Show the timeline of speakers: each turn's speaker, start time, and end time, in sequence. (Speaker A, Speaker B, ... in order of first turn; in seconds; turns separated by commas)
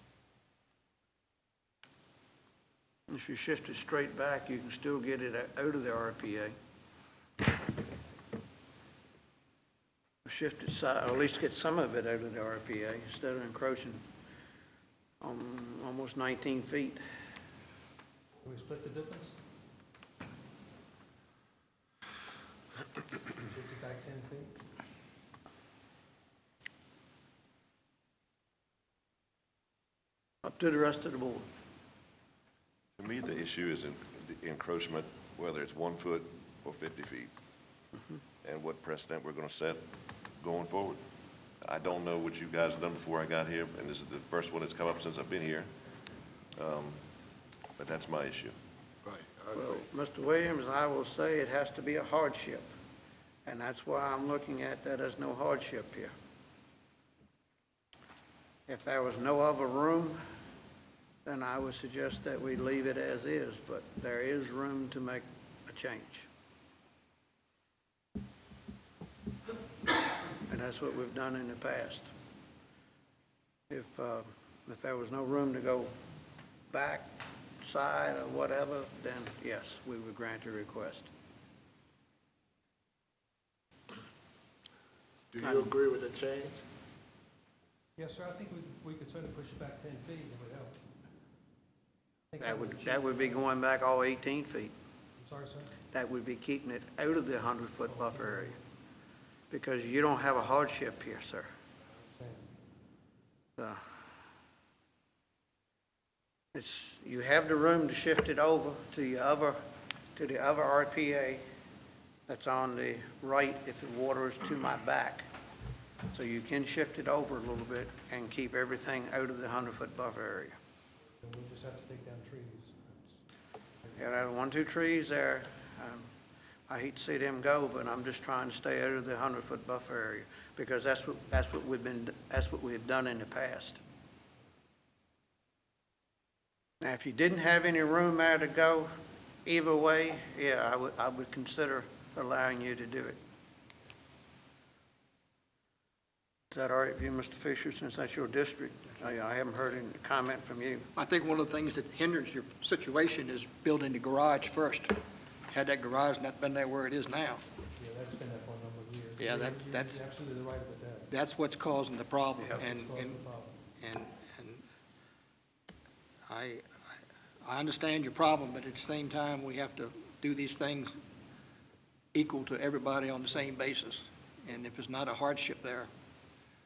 Speaker A: 3.1-6.5, Speaker A: 10.2-14.0, Speaker A: 15.2-17.0, Speaker B: 18.4-19.3, Speaker B: 23.4-24.6, Speaker A: 30.4-31.4, Speaker C: 33.0-37.3, Speaker C: 38.4-39.8, Speaker C: 40.4-41.0, Speaker C: 41.6-45.7, Speaker C: 46.5-47.1, Speaker C: 47.8-48.5, Speaker D: 49.0-49.8, Speaker A: 49.5-52.7, Speaker A: 53.5-56.1, Speaker A: 58.7-60.2, Speaker A: 61.2-66.3, Speaker A: 70.5-72.1, Speaker A: 73.7-75.9, Speaker A: 76.7-81.1, Speaker D: 85.3-86.6, Speaker A: 85.4-85.7, Speaker B: 88.0-90.8, Speaker B: 92.3-93.5, Speaker A: 92.4-94.7, Speaker B: 95.2-95.8, Speaker A: 95.9-98.6, Speaker B: 97.9-98.5, Speaker A: 99.5-101.5, Speaker B: 102.2-102.5, Speaker A: 106.5-109.6, Speaker A: 110.1-111.4, Speaker A: 112.3-115.2, Speaker A: 116.1-120.5, Speaker B: 121.2-123.1, Speaker A: 123.9-126.1, Speaker A: 126.7-133.8, Speaker A: 136.8-138.9, Speaker A: 139.4-143.2, Speaker A: 146.5-150.9, Speaker E: 150.9-155.0, Speaker E: 155.5-157.4, Speaker B: 157.8-161.1, Speaker E: 159.2-160.0, Speaker E: 161.1-163.2, Speaker B: 162.6-163.5, Speaker E: 163.8-164.6, Speaker E: 166.3-166.6, Speaker E: 167.4-171.0, Speaker E: 172.1-175.9